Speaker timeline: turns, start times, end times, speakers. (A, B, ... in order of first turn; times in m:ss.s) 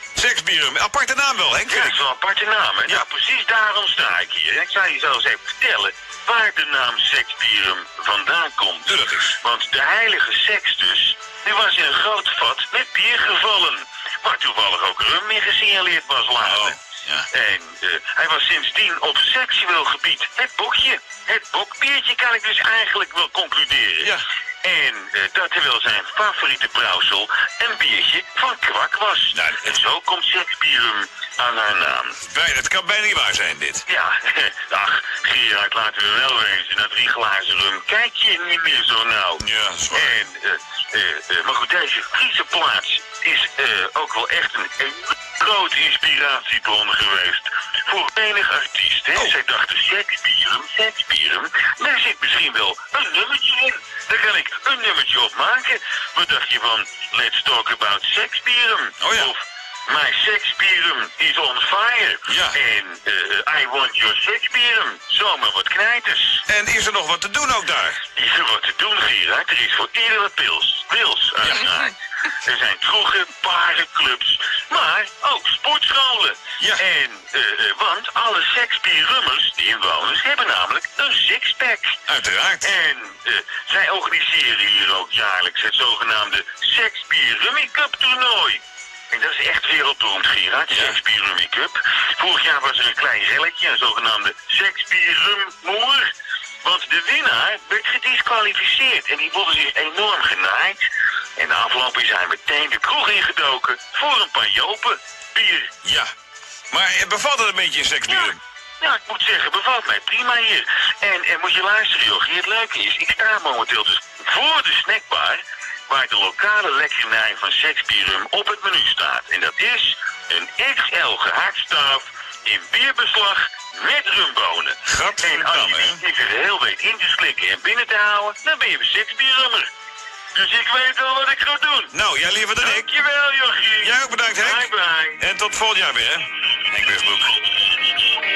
0:00.1-0:02.0 A
0:01.7-0:16.8 B
0:08.8-0:09.4 A
0:16.4-0:17.3 A
0:17.3-0:32.2 B
0:29.3-0:29.7 A
0:32.2-0:33.8 A
0:33.9-1:06.4 B
0:39.4-0:40.2 A
0:59.0-0:59.3 A
1:02.3-1:02.6 A
1:06.5-1:08.0 A
1:08.2-1:22.0 B
1:22.1-1:22.7 A
1:22.6-1:36.1 B
1:30.7-1:31.0 A
1:36.6-1:40.8 B
1:41.4-1:45.7 B
1:45.8-1:46.1 A
1:46.7-1:48.4 A
1:48.1-2:09.7 B
2:04.8-2:06.0 A
2:10.3-2:11.9 B
2:11.9-2:12.9 A
2:12.6-2:15.2 B
2:13.8-2:14.7 A
2:15.2-2:17.4 A